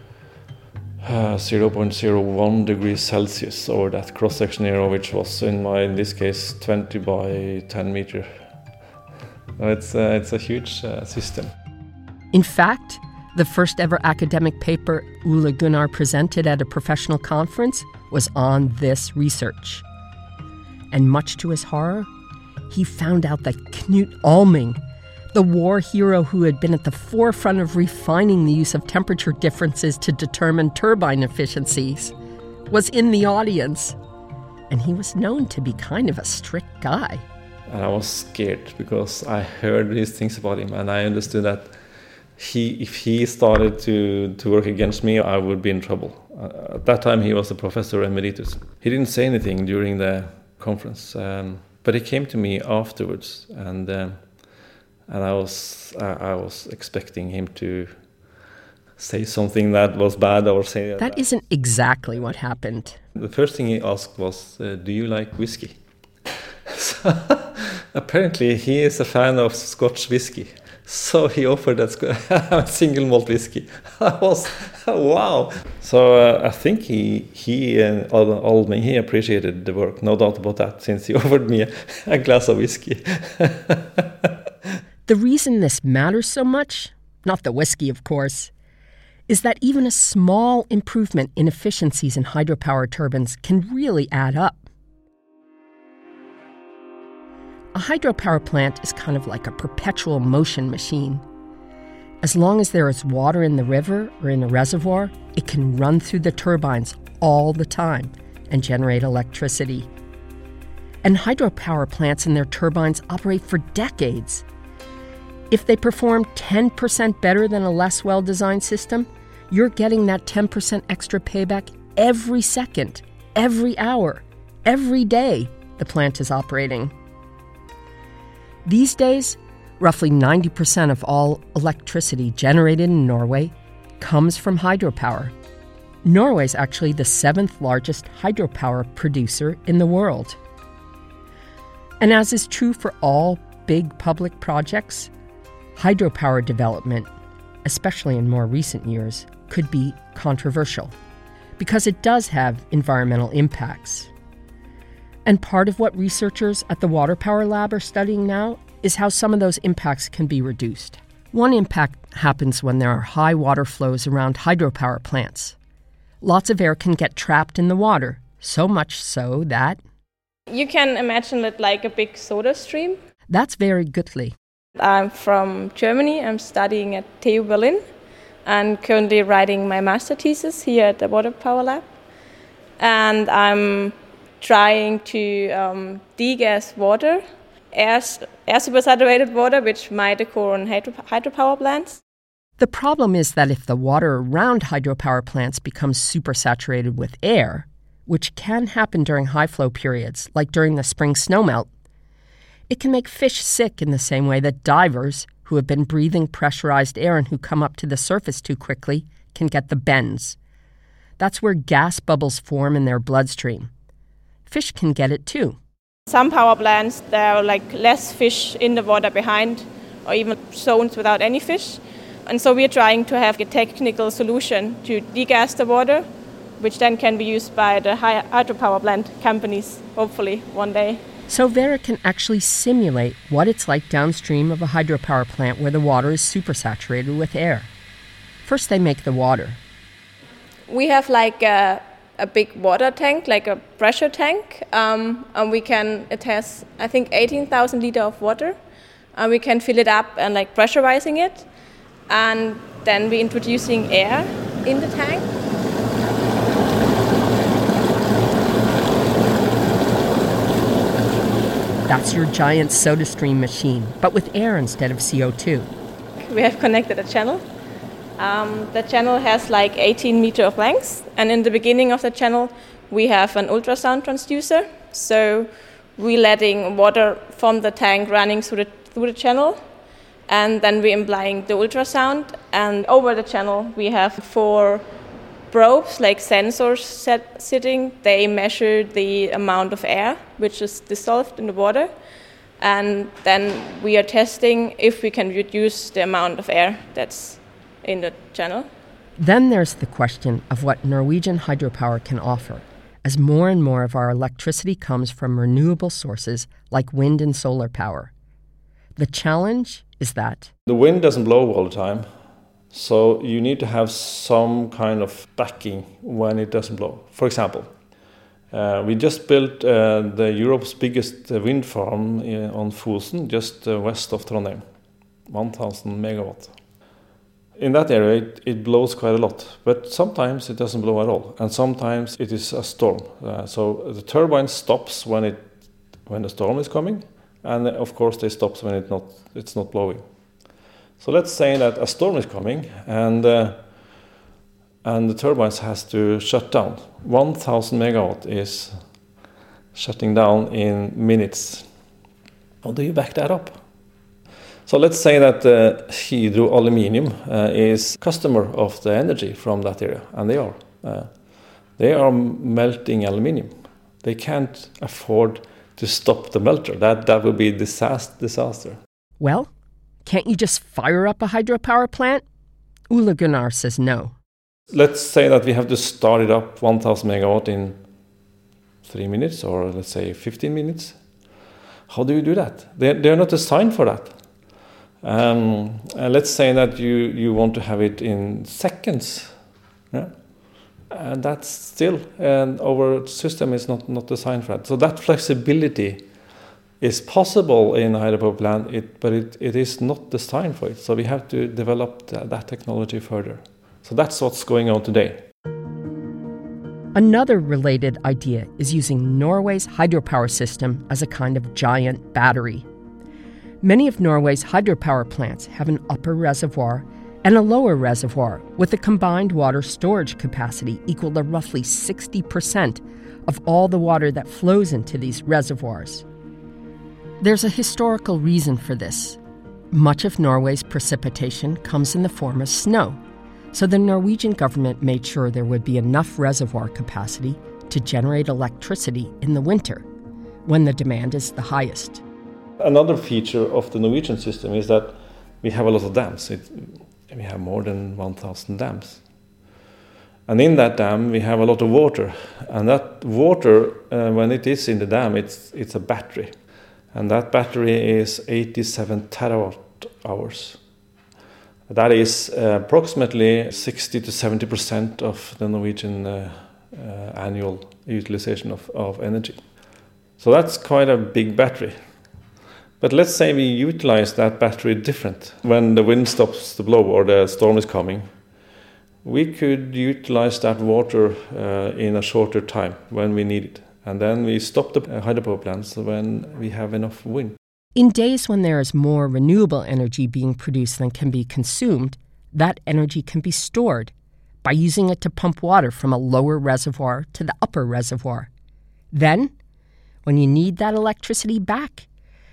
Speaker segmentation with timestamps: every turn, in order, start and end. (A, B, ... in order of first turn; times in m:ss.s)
0:01.0-0:08.4 A
0:09.6-0:11.5 A
0:12.3-0:19.8 B
0:20.9-0:22.1 B
0:22.7-0:24.8 B
0:25.3-0:32.1 B
0:32.7-0:34.0 B
0:34.7-0:37.2 B
0:37.7-0:41.7 A
0:42.4-0:54.2 A
0:55.1-0:58.0 A
0:59.0-1:01.2 A
1:01.0-1:03.0 B
1:03.1-1:05.8 A
1:06.6-1:24.7 A
1:25.1-1:28.5 B
1:29.3-1:34.6 B
1:37.7-1:41.2 B
1:42.2-1:49.9 B
1:51.0-1:54.4 B
1:55.5-2:06.9 B
2:08.6-2:15.3 B
2:16.0-2:20.4 B
2:22.0-2:25.1 B
2:25.8-2:27.1 B
2:27.6-2:30.9 B
2:31.6-2:34.1 B
2:35.2-2:45.6 B
2:46.2-2:49.8 B
2:50.5-2:53.0 C
2:53.3-2:54.3 B
2:54.8-2:57.8 C
2:58.4-3:01.8 C
3:02.8-3:12.0 C
3:12.6-3:21.7 B
3:22.7-3:30.4 B
3:31.2-3:33.7 B
3:34.5-3:35.6 B
3:36.1-3:46.0 C
3:46.6-3:51.0 C
3:51.3-3:57.7 B
3:58.4-3:59.6 B
4:00.7-4:08.6 C
4:09.1-4:11.5 C
4:12.1-4:15.3 C
4:21.9-4:25.7 B
4:26.2-4:27.4 C
4:28.2-4:39.6 C
4:40.3-4:44.8 C
4:45.5-4:51.9 C
4:52.6-4:58.7 C
4:59.2-5:08.1 B
5:09.0-5:10.5 B
5:10.7-5:12.1 A
5:12.7-5:17.7 A
5:18.5-5:24.6 A
5:25.3-5:26.5 A
5:27.6-5:35.5 A
5:36.0-5:40.0 A
5:41.0-5:43.6 A
5:44.8-5:48.8 A
5:49.7-5:51.7 A
5:52.6-5:53.6 A
5:54.6-6:01.1 A
6:01.8-6:08.8 A
6:09.2-6:09.5 B
6:10.0-6:12.2 B
6:12.9-6:14.1 B
6:14.7-6:17.8 A
6:18.8-6:21.0 A
6:21.9-6:24.1 A
6:25.0-6:29.3 A
6:30.9-6:36.1 A
6:36.8-6:45.2 A
6:46.9-6:52.6 B
6:53.6-7:06.0 B
7:07.2-7:09.2 B
7:09.7-7:13.0 B
7:13.5-7:19.8 B
7:20.4-7:22.0 B
7:22.6-7:29.0 A
7:30.3-7:36.3 A
7:36.9-7:40.6 A
7:41.7-7:49.4 A
7:50.2-7:51.8 A
7:52.8-7:58.1 A
7:59.0-8:07.4 A
8:07.8-8:13.9 B
8:14.4-8:18.3 B
8:18.9-8:19.3 B
8:20.0-8:21.9 B